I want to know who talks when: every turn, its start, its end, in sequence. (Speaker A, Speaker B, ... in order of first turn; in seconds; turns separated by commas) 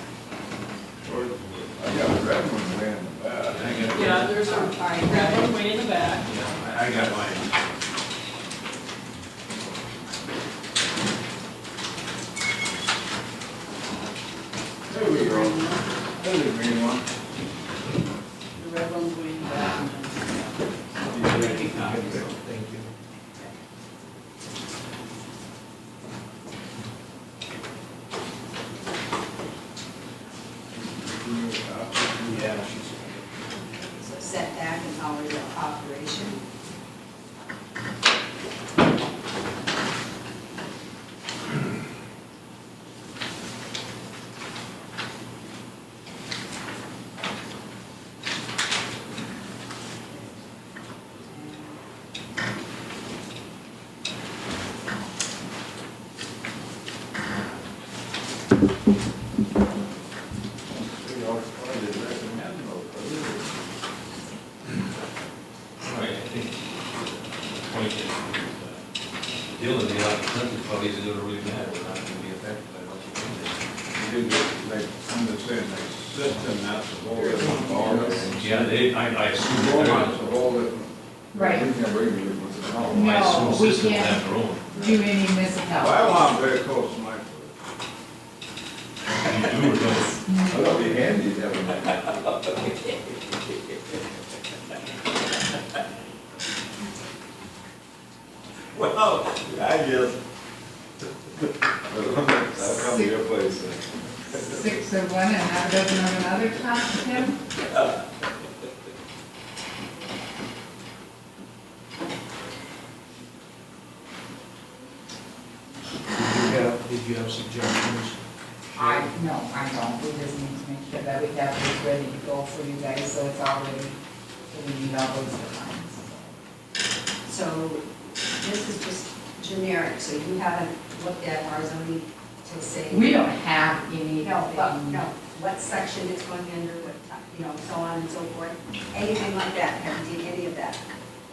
Speaker A: 1.0-4.0, Speaker B: 3.5-4.3, Speaker C: 3.9-6.3, Speaker D: 4.1-5.5, Speaker B: 6.2-7.6, Speaker A: 14.9-17.0, Speaker C: 14.9-15.8, Speaker C: 18.6-22.3, Speaker A: 21.0-22.3, Speaker E: 21.7-22.9, Speaker A: 30.7-32.7, Speaker E: 32.2-33.2, Speaker D: 33.9-36.4, Speaker A: 60.7-63.5, Speaker B: 65.8-66.7, Speaker B: 67.6-68.8, Speaker B: 69.5-73.6, Speaker A: 73.9-78.7, Speaker C: 77.2-78.3, Speaker B: 78.3-80.3, Speaker A: 79.4-83.2, Speaker F: 81.3-81.7, Speaker F: 82.9-86.3, Speaker B: 82.9-84.7, Speaker A: 84.7-85.0, Speaker A: 85.7-87.5, Speaker B: 89.2-90.5, Speaker F: 90.2-90.5, Speaker A: 90.5-92.0, Speaker A: 98.8-100.1, Speaker A: 101.9-103.8, Speaker F: 102.5-103.2, Speaker F: 104.3-107.4, Speaker E: 116.1-118.2, Speaker F: 118.7-124.0, Speaker F: 124.5-126.2, Speaker D: 127.2-133.2, Speaker F: 132.9-135.0, Speaker D: 134.2-140.8